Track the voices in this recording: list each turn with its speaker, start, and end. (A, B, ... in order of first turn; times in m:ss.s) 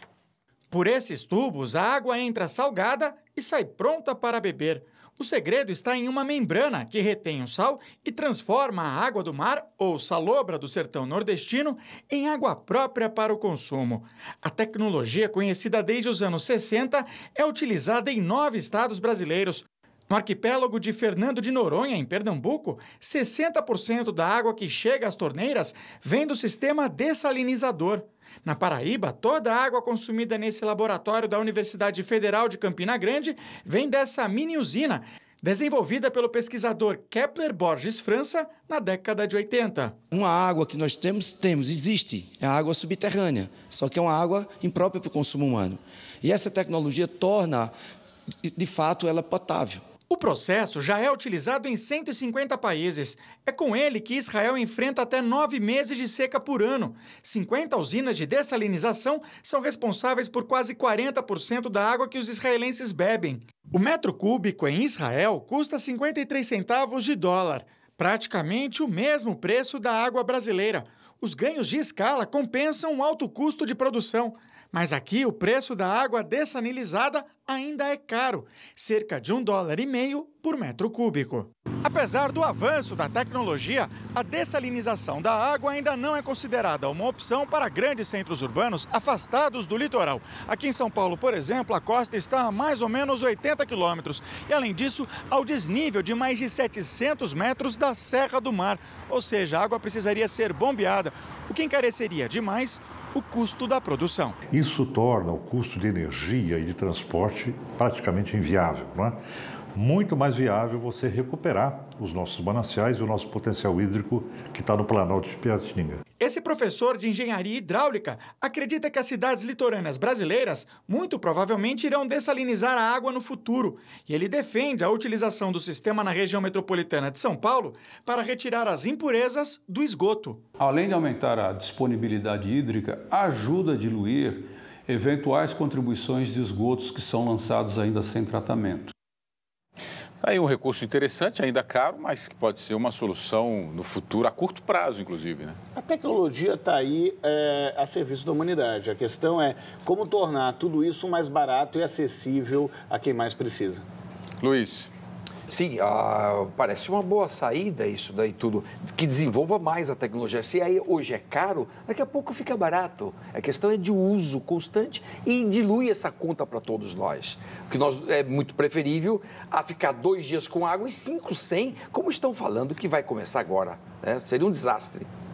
0:00.7-0:39.9 A
0:40.2-0:47.7 B
0:48.5-0:49.8 B
0:50.1-1:44.4 A
1:44.5-1:49.2 C
1:49.7-1:56.0 C
1:56.2-2:10.4 A
2:10.6-2:18.9 D
2:20.2-2:25.6 E
2:25.8-2:33.8 F
2:34.4-2:34.9 E
2:35.5-2:55.1 G